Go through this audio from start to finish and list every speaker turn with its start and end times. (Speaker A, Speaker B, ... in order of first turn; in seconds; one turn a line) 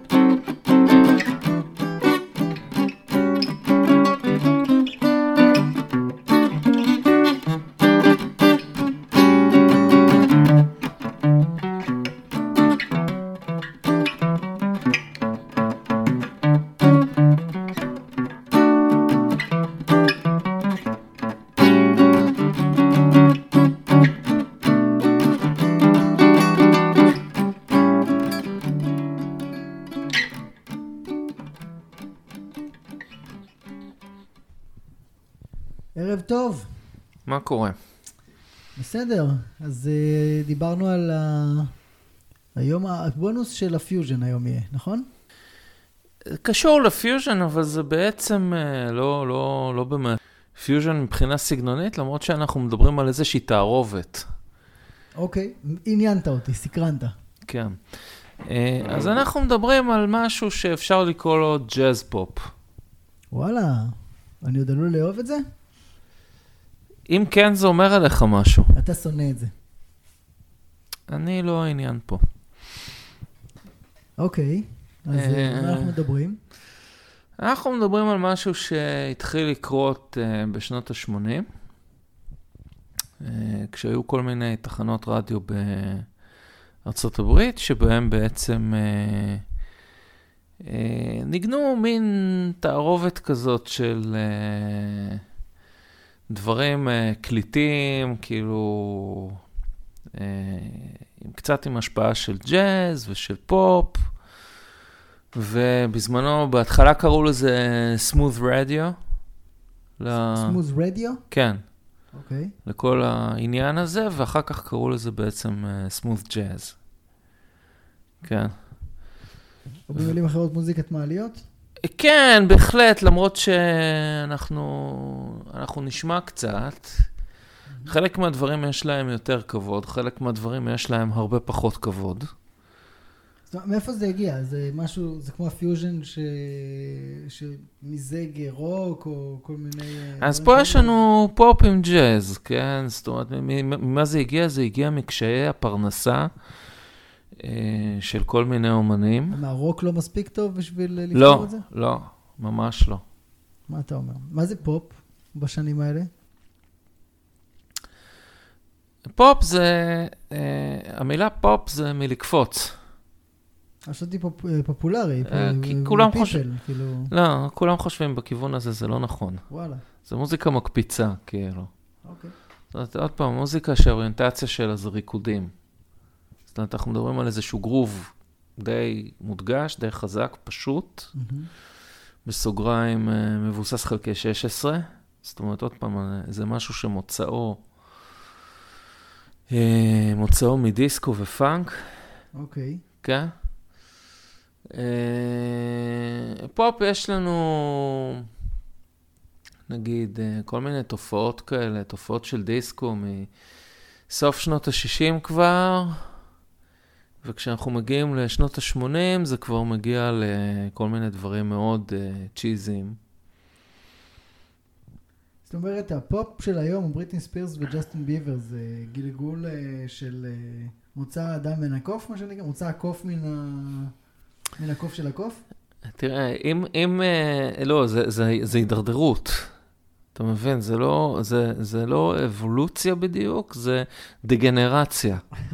Speaker A: 35.9-36.7
Speaker B: 37.2-37.8
Speaker A: 38.8-41.7
Speaker A: 42.5-45.1
Speaker B: 46.2-54.3
Speaker A: 55.1-57.1
Speaker B: 57.5-62.5
Speaker A: 63.3-65.4
Speaker B: 67.1-68.7
Speaker A: 68.7-69.5
Speaker B: 71.1-72.2
Speaker A: 74.2-76.4
Speaker B: 75.1-75.9
Speaker B: 77.4-81.5
Speaker B: 83.2-86.1
Speaker B: 86.8-89.4
Speaker B: 90.6-95.2
Speaker B: 96.3-99.4
Speaker B: 100.1-104.1
Speaker B: 105.3-109.0
Speaker B: 110.0-110.6
Speaker A: 110.2-111.2
Speaker B: 111.3-111.6
Speaker A: 112.1-112.5
Speaker B: 112.6-116.8
Speaker B: 118.2-118.5
Speaker A: 119.9-121.4
Speaker B: 121.8-127.1
Speaker A: 127.7-127.9
Speaker B: 127.8-132.3
Speaker A: 133.5-141.0
Speaker B: 140.2-146.3
Speaker B: 147.3-149.4
Speaker A: 149.3-151.6
Speaker B: 151.1-153.0
Speaker A: 153.7-156.1
Speaker B: 159.1-162.8
Speaker A: 163.8-167.1
Speaker B: 165.2-166.4
Speaker B: 167.1-169.4
Speaker A: 169.5-169.8
Speaker B: 170.0-171.7
Speaker A: 172.0-172.3
Speaker B: 172.7-175.5
Speaker B: 176.5-181.1
Speaker A: 181.1-181.5
Speaker B: 182.2-187.6
Speaker B: 189.5-192.0
Speaker A: 192.3-192.8
Speaker B: 193.0-193.3
Speaker B: 194.7-198.3
Speaker B: 199.7-203.3
Speaker B: 204.1-206.1
Speaker B: 207.2-213.0
Speaker A: 215.5-223.9
Speaker A: 224.6-225.4
Speaker B: 225.8-229.5
Speaker B: 230.1-235.2